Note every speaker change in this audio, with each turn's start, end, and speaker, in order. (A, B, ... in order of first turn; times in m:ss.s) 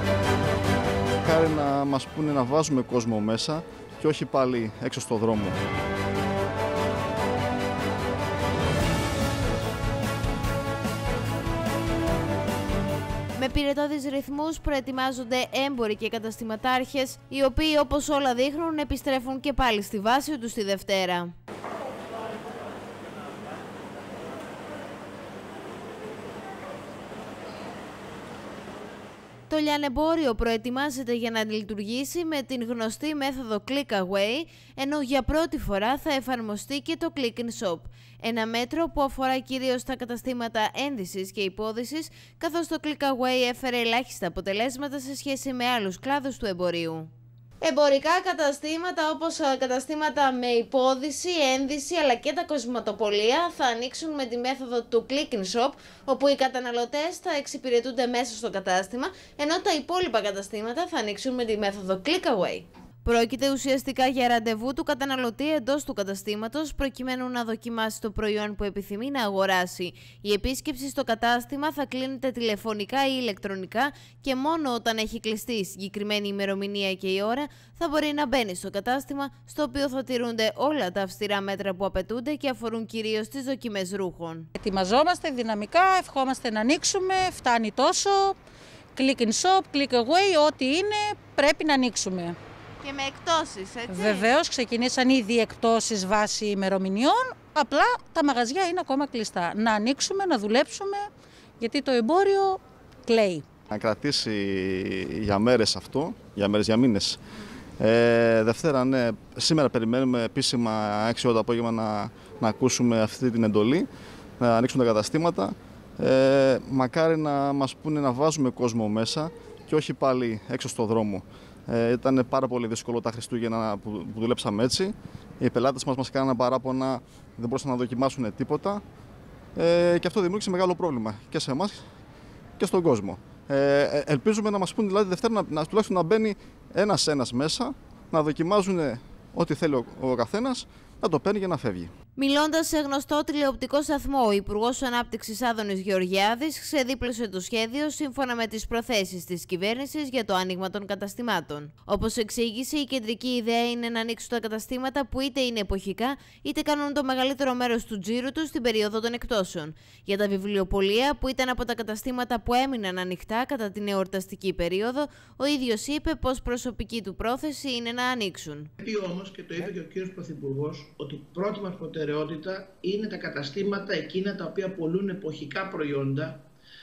0:01.2-0:05.6 A
0:13.4-0:21.3 B
0:29.5-0:47.1 B
0:47.6-1:24.5 B
1:24.6-1:28.4 C
1:29.0-1:32.4 C
1:32.8-1:34.3 B
1:33.9-1:41.1 C
1:41.6-1:43.4 C
1:43.7-1:47.2 A
1:47.8-1:53.9 A
1:54.4-2:08.8 A
2:09.6-2:11.8 A
2:12.6-2:21.9 A
2:22.2-2:48.7 B
2:48.8-2:56.4 D